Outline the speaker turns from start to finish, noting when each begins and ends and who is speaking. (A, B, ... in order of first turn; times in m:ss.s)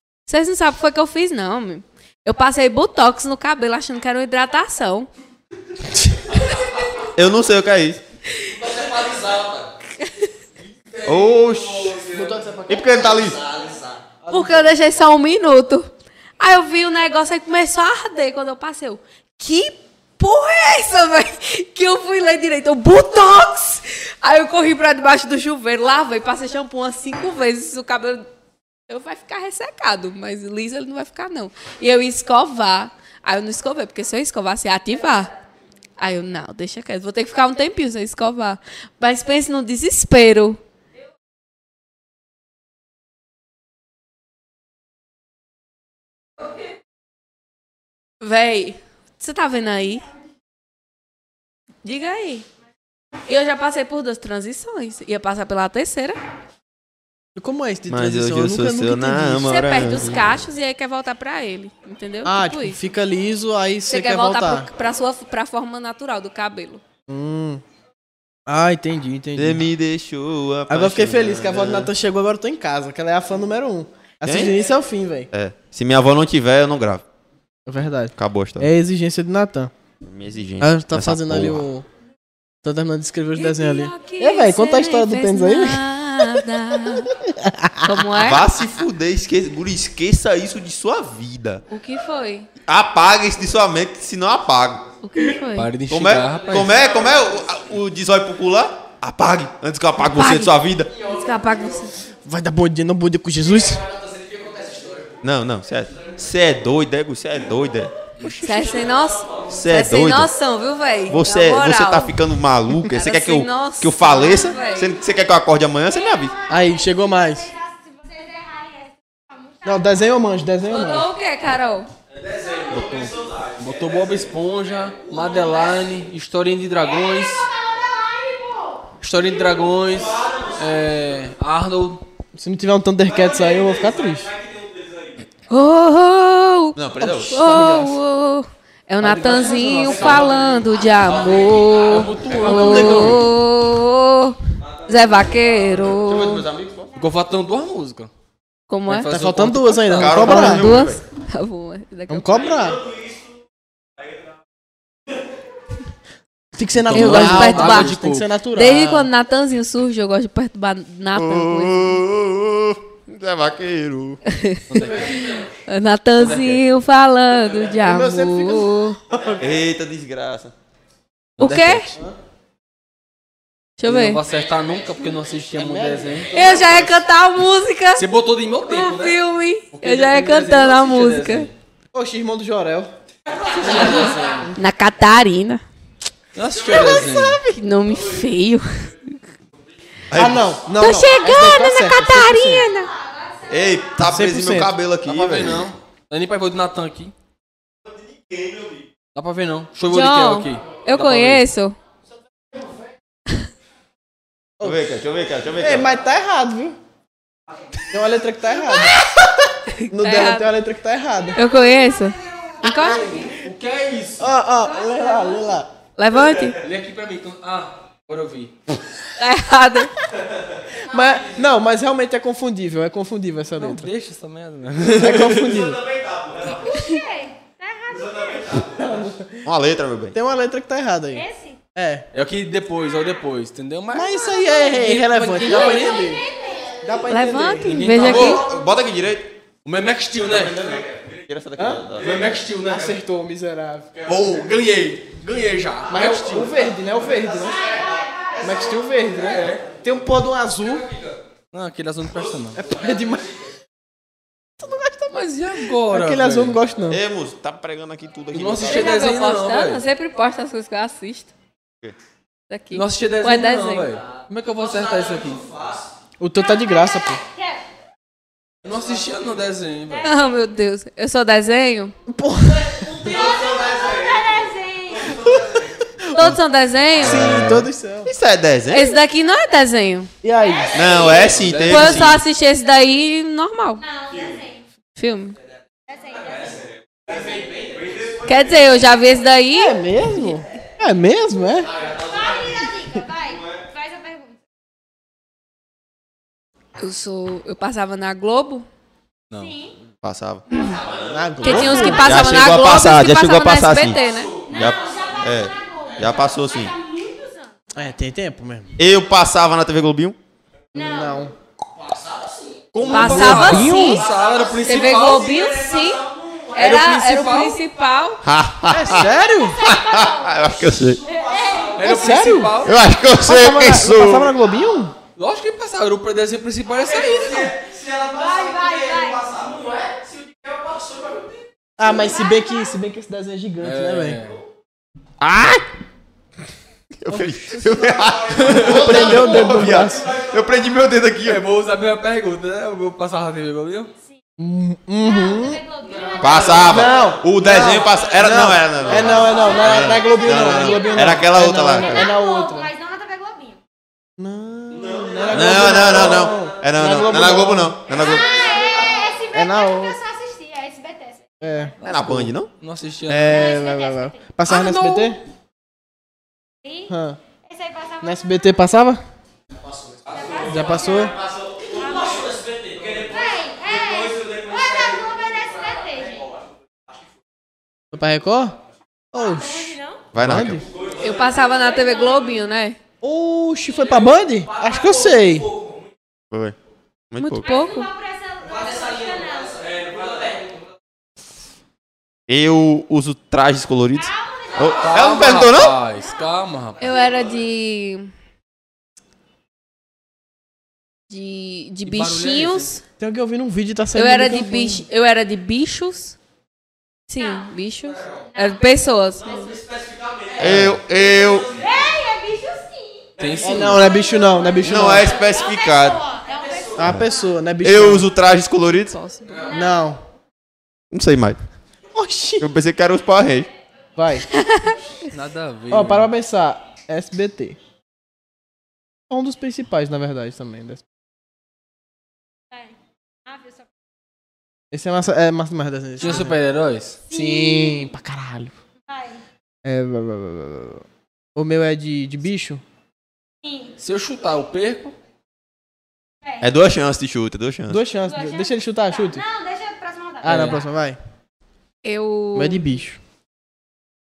0:00.3-0:05.1 A
0:07.1-0:08.0 B
0:09.1-0:09.4 C
0:10.0-0:10.3 A
0:11.0-0:12.1 B
0:12.1-0:12.9 D
0:12.7-0:13.4 B
0:14.2-0:14.6 D
0:14.3-0:28.3 A
0:28.9-0:35.3 A
0:36.0-0:40.6 A
0:48.2-0:50.0 A
0:51.8-0:52.4 A
0:53.3-0:56.2 A
0:57.4-0:59.5 D
0:57.9-1:00.2 B
0:59.4-1:02.8 A
1:02.2-1:04.7 D
1:03.9-1:06.8 A
1:07.1-1:07.6 D
1:08.5-1:09.6 D
1:09.3-1:11.9 B
1:10.7-1:15.3 D
1:14.2-1:14.5 B
1:15.3-1:17.0 B
1:17.6-1:19.7 D
1:18.2-1:18.7 B
1:20.0-1:21.6 B
1:20.6-1:21.8 D
1:22.6-1:26.4 D
1:23.3-1:27.1 A
1:27.1-1:27.9 D
1:27.8-1:28.4 A
1:28.2-1:31.6 B
1:31.7-1:32.5 A
1:32.6-1:34.8 B
1:35.0-1:35.7 A
1:35.6-1:36.8 C
1:35.9-1:40.9 B
1:40.0-1:41.9 A
1:42.2-1:43.8 D
1:45.2-1:47.9 B
1:48.3-1:52.2 A
1:49.5-1:50.3 B
1:51.1-1:56.3 B
1:52.7-1:54.9 A
1:56.3-1:56.9 E
1:56.5-1:57.5 D
1:57.4-2:00.0 E
1:59.6-2:01.1 D
2:00.7-2:01.9 A
2:02.7-2:07.5 C
2:07.3-2:08.8 E
2:09.0-2:12.0 C
2:12.3-2:14.3 D
2:15.5-2:26.4 A
2:16.7-2:17.3 B
2:17.0-2:17.9 D
2:19.0-2:20.4 D
2:19.7-2:20.3 C
2:21.7-2:23.2 C
2:22.4-2:23.2 D
2:25.9-2:26.9 B
2:27.0-2:28.1 C
2:28.7-2:29.1 A
2:28.9-2:30.4 C
2:29.1-2:30.7 D
2:29.9-2:31.0 B
2:30.2-2:32.4 A
2:32.1-2:32.8 D
2:36.5-2:39.1 D
2:36.8-2:38.3 C
2:36.9-2:38.0 A
2:38.5-2:42.0 A
2:41.1-2:44.2 B
2:44.3-2:49.0 A
2:44.7-2:45.4 C
2:46.2-2:46.6 C
2:47.8-2:49.4 D
2:49.4-2:50.5 B
2:51.4-2:52.0 C
2:51.4-2:51.9 A
2:53.8-2:54.2 A
2:53.8-2:56.4 C
2:55.6-2:56.9 D
2:56.3-2:58.0 A
2:58.0-2:59.2 C
2:58.7-3:01.5 A
2:59.7-3:01.5 C
3:01.9-3:02.9 D
3:03.5-3:04.5 C
3:04.5-3:05.6 A
3:06.3-3:07.4 C
3:06.7-3:08.8 A
3:10.1-3:10.5 B
3:10.1-3:12.6 D
3:10.8-3:12.9 A
3:13.5-3:15.6 B
3:14.0-3:14.7 D
3:15.0-3:17.1 C
3:19.1-3:21.4 C
3:19.9-3:21.8 A
3:24.6-3:24.8 D
3:24.6-3:25.9 B
3:25.6-3:26.8 D
3:27.9-3:29.1 D
3:29.7-3:30.5 A
3:29.9-3:31.4 D
3:31.3-3:33.2 A
3:32.6-3:33.3 D
3:33.4-3:34.3 C
3:34.2-3:35.7 D
3:36.0-3:36.6 A
3:36.6-3:38.5 C
3:39.2-3:39.9 A
3:40.9-3:43.9 D
3:43.6-3:45.6 C
3:44.9-3:45.8 D
3:45.9-3:46.4 B
3:46.6-3:48.6 E
3:48.6-3:49.4 D
3:49.4-3:50.2 B
3:50.1-3:52.0 D
3:51.1-3:51.6 E
3:52.1-3:56.1 C
3:53.9-3:56.2 D
3:55.5-3:56.8 E
3:56.8-3:58.4 D
3:57.1-3:58.4 A
3:57.9-3:58.4 C
3:58.0-3:59.3 B
3:59.6-4:00.8 C
4:00.3-4:02.3 B
4:01.6-4:01.9 D
4:02.0-4:03.0 C
4:02.6-4:03.9 D
4:04.0-4:06.5 C
4:05.9-4:07.7 D
4:07.8-4:08.4 E
4:08.4-4:10.9 D
4:09.2-4:09.6 C
4:11.5-4:12.6 C
4:12.5-4:13.3 D
4:14.6-4:17.0 D
4:15.1-4:16.6 C
4:16.9-4:19.1 B
4:18.3-4:19.8 C
4:18.6-4:21.3 A
4:22.5-4:23.9 A
4:22.7-4:25.5 C
4:26.2-4:27.2 D
4:27.3-4:27.6 E
4:28.6-4:30.1 C
4:30.0-4:31.9 A
4:32.1-4:33.3 D
4:33.1-4:35.2 E
4:35.1-4:36.4 D
4:36.1-4:37.6 A
4:37.0-4:38.1 D
4:37.0-4:39.0 B
4:38.7-4:40.1 A
4:40.2-4:41.1 D
4:40.7-4:42.2 B
4:41.2-4:42.2 C
4:41.7-4:43.8 A
4:43.8-4:44.6 E
4:44.9-4:45.4 A
4:45.9-4:46.6 E
4:48.2-4:50.3 A
4:49.5-4:51.7 D
4:51.9-4:54.4 E
4:56.8-4:58.7 A
4:59.3-4:59.6 C
4:59.4-4:59.7 E
5:00.0-5:00.4 B
5:00.5-5:00.8 A
5:00.9-5:02.1 D
5:01.4-5:04.4 A
5:01.5-5:06.7 B
5:04.4-5:07.5 E
5:07.7-5:08.7 D
5:08.8-5:10.2 B
5:10.7-5:11.3 D
5:10.8-5:11.0 E
5:12.7-5:15.6 C
5:12.8-5:14.1 A
5:12.8-5:14.1 D
5:14.6-5:18.2 A
5:16.5-5:17.6 C
5:18.2-5:21.0 B
5:18.7-5:19.7 D
5:19.7-5:20.3 E
5:21.1-5:21.8 E
5:21.7-5:22.8 C
5:21.8-5:22.6 D
5:22.6-5:24.3 B
5:23.2-5:24.9 D
5:25.2-5:27.6 C
5:28.0-5:29.2 E
5:31.8-5:34.2 D
5:33.6-5:34.4 C
5:35.2-5:35.6 B
5:37.0-5:41.4 B
5:37.1-5:37.6 D
5:38.3-5:39.1 C
5:38.5-5:40.1 D
5:41.2-5:43.9 C
5:44.4-5:45.6 D
5:45.0-5:46.8 E
5:46.2-5:52.2 B
5:46.5-5:52.7 D
5:52.0-5:53.6 E
5:54.2-5:57.8 D
5:55.3-5:58.4 B
5:58.0-6:01.2 E
5:59.3-6:00.0 D
6:01.4-6:02.2 D
6:01.8-6:03.6 C
6:01.8-6:02.5 B
6:03.1-6:05.2 D
6:03.4-6:04.0 E
6:04.5-6:05.1 A
6:06.6-6:06.9 E
6:06.9-6:07.2 D
6:07.5-6:08.1 E
6:08.0-6:09.0 D
6:10.1-6:11.0 E
6:10.4-6:11.2 D
6:11.7-6:12.3 E
6:13.1-6:16.2 E
6:17.9-6:18.6 D
6:19.1-6:20.7 D
6:19.4-6:20.0 E
6:20.1-6:20.6 B
6:21.0-6:22.8 A
6:23.0-6:25.5 D
6:26.3-6:26.6 B
6:27.1-6:27.5 B
6:27.2-6:27.9 A
6:27.4-6:29.7 E
6:32.3-6:35.8 B
6:34.1-6:34.6 E
6:34.6-6:36.8 C
6:36.8-6:38.1 A
6:41.1-6:42.8 A
6:41.8-6:42.7 C
6:43.0-6:44.8 D
6:43.9-6:46.2 A
6:47.1-6:49.6 A
6:50.4-6:51.6 B
6:50.5-6:50.7 C
6:51.6-6:53.0 E
6:53.2-6:53.9 C
6:53.4-6:55.2 D
6:54.6-6:56.0 B
6:55.2-6:56.8 E
6:56.8-6:58.1 D
6:56.8-6:57.1 B
6:57.6-6:59.0 B
6:58.9-6:59.6 A
6:59.5-7:00.0 D
7:00.9-7:01.4 B
7:01.9-7:02.5 D
7:02.4-7:03.5 B
7:04.0-7:04.3 D
7:04.3-7:04.8 A
7:05.1-7:06.1 C
7:05.7-7:07.6 D
7:09.1-7:10.8 D
7:13.2-7:13.6 E
7:14.7-7:16.4 D
7:16.0-7:17.0 C
7:17.1-7:17.8 E
7:17.1-7:18.5 D
7:18.9-7:19.2 E
7:19.6-7:20.8 D
7:21.3-7:22.6 D
7:23.4-7:23.7 E
7:23.8-7:24.9 C
7:26.4-7:27.8 B
7:27.7-7:29.2 D
7:28.1-7:30.3 E
7:30.2-7:31.0 D
7:30.2-7:30.6 C
7:31.8-7:32.6 A
7:32.4-7:33.0 D